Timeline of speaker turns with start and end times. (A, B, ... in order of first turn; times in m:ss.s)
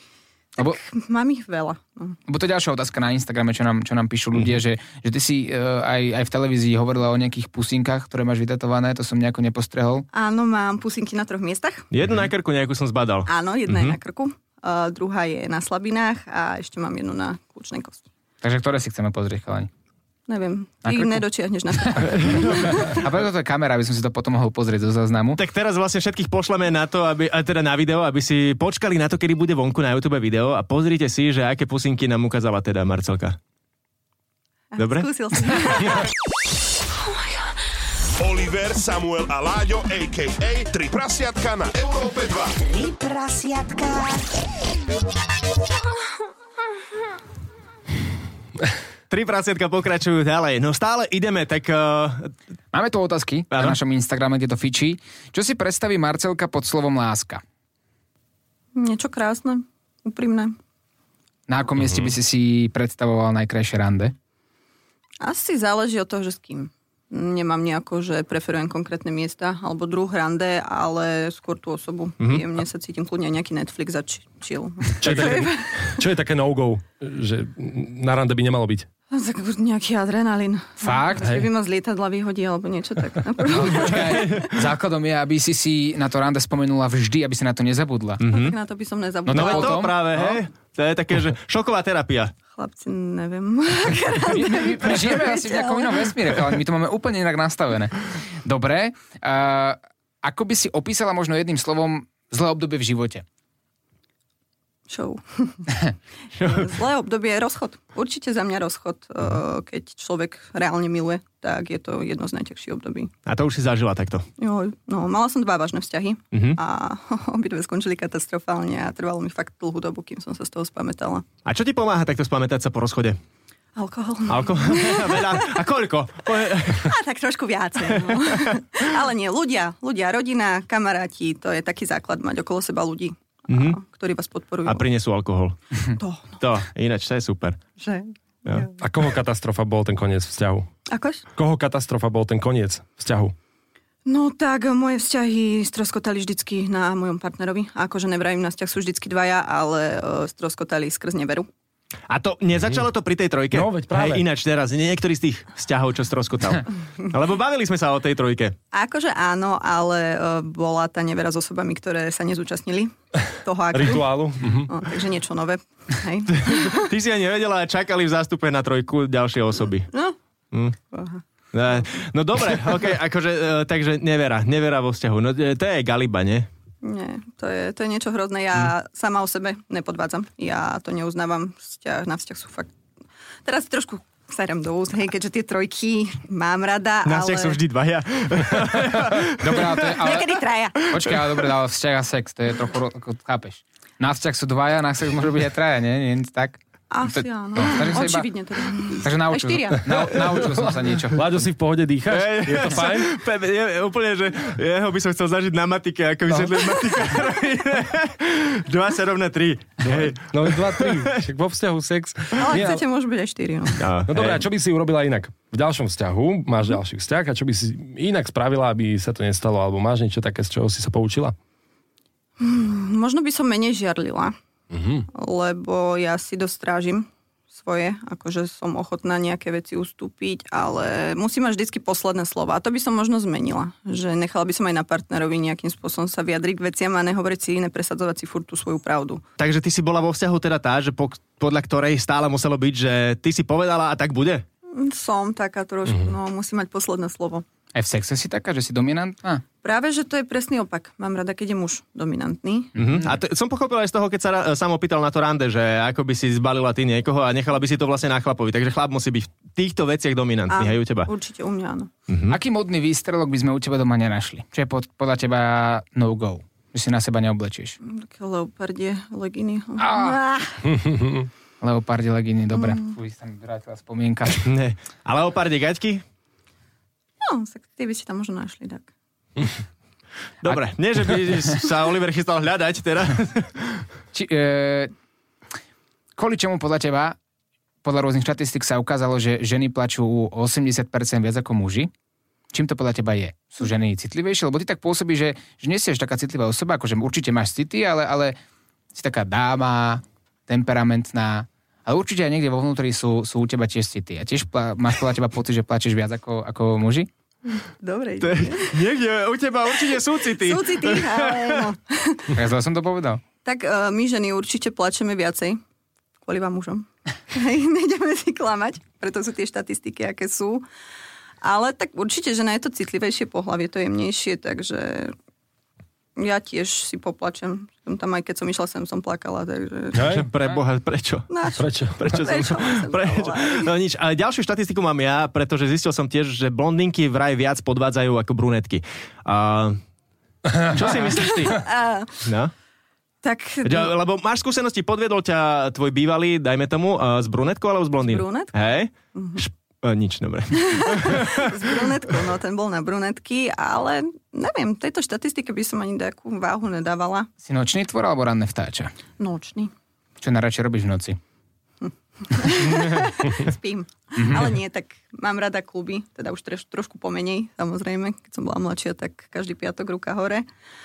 0:00.6-0:02.2 A
0:02.3-0:10.1 B
0:10.1-0:11.9 A
0:11.9-0:14.0 C
0:13.3-0:18.0 A
0:18.4-0:19.7 B
0:20.3-0:23.0 A
0:20.8-0:21.2 B
0:21.8-0:25.4 B
0:22.1-0:22.8 C
0:25.4-0:33.4 C
0:34.7-0:36.0 A
0:34.8-0:35.7 C
0:38.2-0:42.7 D
0:49.1-0:52.3 C
0:52.7-0:57.4 B
0:53.5-0:53.8 C
0:58.8-1:00.6 A
1:01.5-1:04.1 B
1:05.2-1:16.0 A
1:15.0-1:18.9 E
1:19.1-1:24.5 A
1:20.8-1:21.4 B
1:23.5-1:28.2 B
1:23.9-1:24.5 C
1:28.2-1:28.6 C
1:28.3-1:29.9 A
1:29.3-1:30.4 B
1:29.3-1:32.3 C
1:32.6-1:36.1 A
1:34.3-1:43.2 B
1:44.9-1:45.8 A
1:46.4-1:46.7 C
1:46.4-1:53.1 A
1:53.3-1:54.3 C
1:54.4-2:01.3 A
1:56.3-1:56.6 C
2:01.4-2:03.2 C
2:03.8-2:05.6 A
2:04.3-2:06.9 C
2:06.8-2:14.8 A
2:13.5-2:13.8 C
2:14.7-2:15.6 C
2:16.0-2:16.4 A
2:16.4-2:17.6 C
2:17.8-2:18.8 A
2:18.8-2:20.7 E
2:20.9-2:21.2 A
2:21.4-2:23.3 E
2:24.1-2:31.5 A
2:32.1-2:38.6 C
2:33.5-2:34.2 E
2:38.7-2:46.9 A
2:43.7-2:44.7 E
2:46.3-2:49.9 C
2:49.9-2:50.2 A
2:50.5-2:50.8 C
2:50.9-2:51.2 A
2:51.5-2:56.5 C
2:56.8-3:02.7 A
3:03.4-3:07.6 A
3:07.1-3:09.9 C
3:09.4-3:18.3 B
3:09.9-3:10.9 A
3:16.9-3:20.4 A
3:19.0-3:21.5 B
3:20.2-3:23.1 E
3:22.1-3:31.2 C
3:26.3-3:26.6 E
3:29.8-3:32.8 E
3:32.4-3:33.9 A
3:33.8-3:34.4 C
3:34.1-3:41.4 E
3:42.4-3:44.4 A
3:44.7-3:45.1 E
3:45.1-3:59.2 A
3:59.4-4:04.4 C
4:04.7-4:07.4 A
4:07.7-4:09.4 B
4:09.6-4:12.7 A
4:12.8-4:13.1 B
4:12.8-4:21.1 C
4:20.5-4:21.9 A
4:22.1-4:22.4 C
4:22.3-4:27.8 B
4:27.8-4:30.7 A
4:29.8-4:30.2 B
4:30.7-4:31.3 E
4:31.6-4:34.5 B
4:32.6-4:33.0 A
4:34.4-4:36.0 C
4:37.2-4:38.9 A
4:40.4-4:43.8 C
4:44.1-4:44.9 B
4:46.2-4:47.2 B
4:47.8-4:51.9 B
4:52.5-4:58.4 B
4:58.9-5:07.1 B
5:07.5-5:08.8 A
5:08.2-5:11.7 C
5:10.4-5:12.3 A
5:12.3-5:13.2 B
5:13.4-5:15.6 A
5:16.2-5:20.6 A
5:21.4-5:25.1 A
5:26.2-5:30.1 A
5:30.0-5:30.3 E
5:30.0-5:31.3 C
5:31.3-5:33.7 A
5:31.6-5:32.4 E
5:32.0-5:39.8 C
5:40.5-5:40.8 E
5:40.7-5:41.6 C
5:41.0-5:42.2 A
5:42.2-5:42.5 C
5:43.2-5:43.9 A
5:43.6-5:51.5 C
5:48.0-5:48.6 A
5:49.1-5:49.4 A
5:50.6-5:57.3 A
5:57.4-5:58.9 B
5:59.2-5:59.7 A
6:00.2-6:01.2 B
6:01.8-6:10.5 A
6:04.2-6:04.6 B